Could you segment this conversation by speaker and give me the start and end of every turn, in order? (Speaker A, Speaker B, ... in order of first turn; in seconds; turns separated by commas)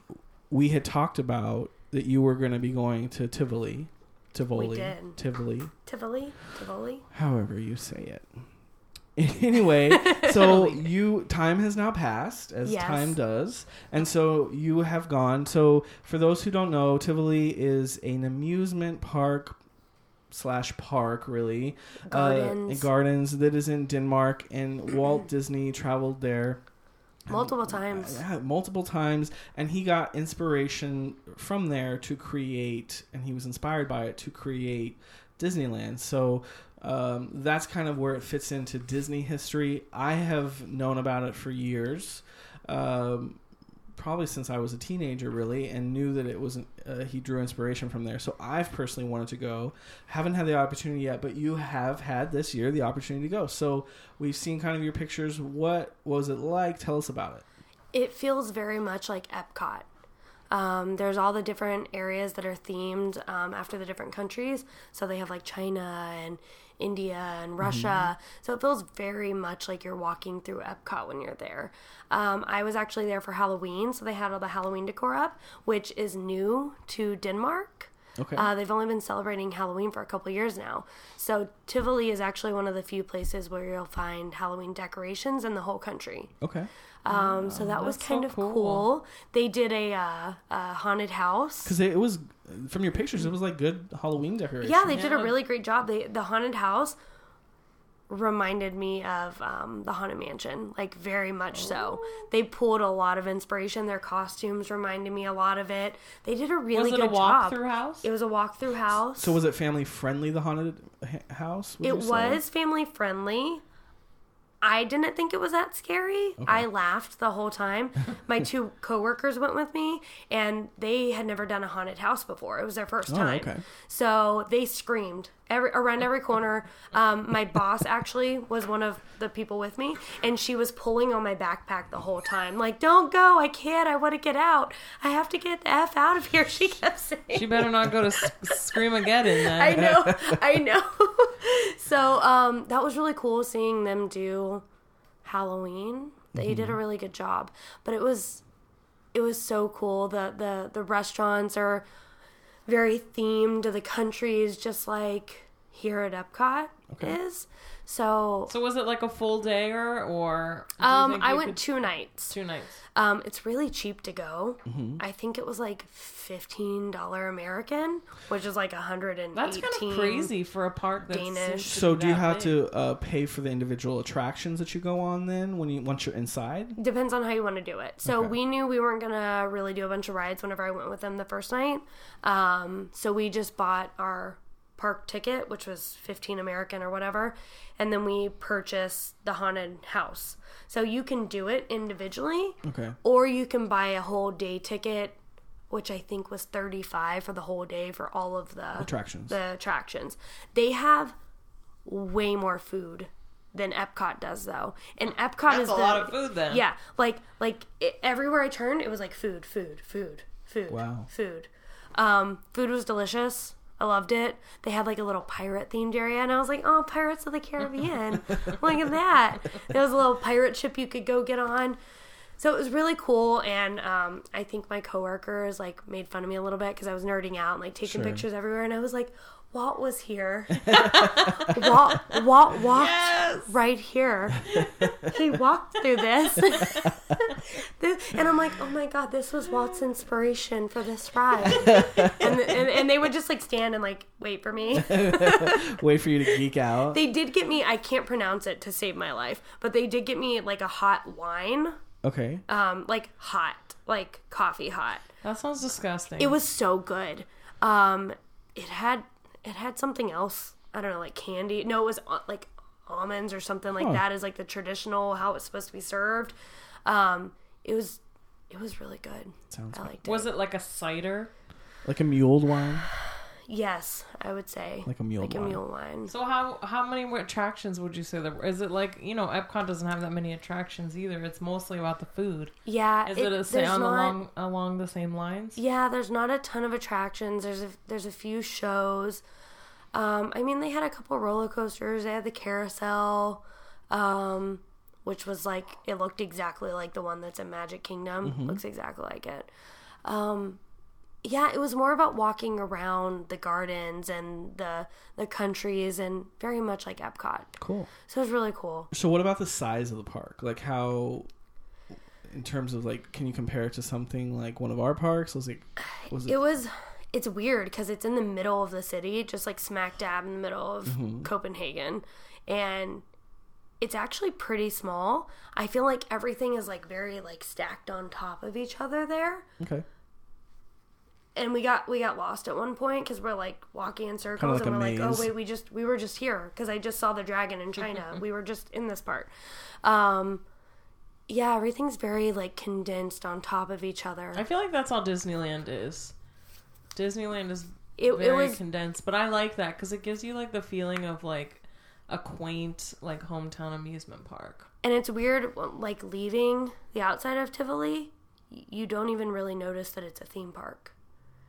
Speaker A: 0.5-5.7, Speaker B: 4.5-5.2, Speaker B: 5.8-7.0, Speaker A: 7.1-8.3, Speaker A: 9.2-19.6, Speaker B: 9.9-10.4, Speaker C: 10.3-10.9, Speaker B: 12.6-13.2, Speaker A: 20.3-26.6, Speaker B: 22.1-22.9, Speaker A: 27.3-43.4, Speaker B: 27.3-28.2, Speaker A: 43.9-57.4, Speaker B: 57.9-59.9, Speaker B: 60.5-86.3, Speaker A: 67.6-68.0, Speaker A: 78.2-78.5, Speaker A: 86.4-86.7, Speaker B: 87.0-91.8, Speaker C: 87.1-88.9, Speaker A: 91.6-95.0, Speaker B: 94.6-97.0, Speaker C: 94.9-95.4, Speaker B: 98.1-109.4, Speaker C: 101.5-102.2, Speaker C: 106.7-108.1, Speaker A: 109.2-112.4, Speaker B: 111.8-113.6, Speaker B: 114.6-137.7, Speaker A: 116.4-116.7, Speaker A: 123.1-123.6, Speaker C: 137.3-139.8, Speaker B: 139.4-144.6, Speaker A: 139.7-140.6, Speaker B: 145.2-148.4, Speaker A: 146.3-146.8, Speaker B: 149.1-151.8, Speaker B: 152.7-158.5, Speaker A: 156.9-157.2, Speaker C: 158.5-162.8, Speaker B: 160.8-162.3, Speaker B: 162.9-170.3, Speaker A: 164.7-165.0, Speaker C: 169.3-172.6, Speaker B: 171.1-171.7, Speaker A: 171.7-176.8, Speaker B: 176.8-195.2, Speaker A: 178.1-178.3, Speaker A: 192.6-193.0, Speaker B: 195.7-201.2, Speaker A: 198.8-199.4, Speaker B: 201.8-221.8, Speaker C: 205.5-206.6, Speaker A: 210.7-211.1, Speaker B: 222.4-245.8, Speaker A: 227.8-228.2, Speaker A: 230.6-231.6, Speaker C: 231.2-231.5, Speaker C: 232.6-233.5, Speaker A: 234.6-235.2, Speaker A: 236.4-236.9, Speaker A: 241.4-242.5, Speaker A: 244.7-247.0, Speaker B: 246.9-251.8, Speaker A: 252.0-252.4, Speaker B: 252.5-255.1, Speaker C: 255.2-256.4, Speaker B: 256.2-270.3, Speaker A: 269.5-269.9, Speaker C: 270.0-271.3, Speaker A: 271.8-272.9, Speaker B: 273.5-276.1, Speaker A: 274.9-275.6, Speaker C: 276.1-282.5, Speaker B: 282.6-284.2, Speaker C: 283.1-285.6, Speaker B: 285.6-289.2, Speaker B: 289.9-299.5, Speaker A: 298.2-298.6, Speaker B: 300.0-300.6, Speaker B: 301.2-307.5, Speaker A: 307.6-307.9, Speaker B: 308.1-308.9, Speaker A: 308.9-311.3, Speaker A: 312.2-316.4, Speaker B: 316.0-323.0, Speaker A: 320.9-321.3, Speaker B: 323.8-329.5, Speaker A: 329.6-329.9, Speaker B: 331.4-339.3, Speaker A: 334.4-335.3, Speaker C: 337.8-338.2, Speaker B: 339.8-340.4, Speaker B: 341.3-344.4, Speaker C: 344.3-346.1, Speaker C: 346.9-354.7, Speaker B: 348.0-348.6, Speaker B: 354.8-360.9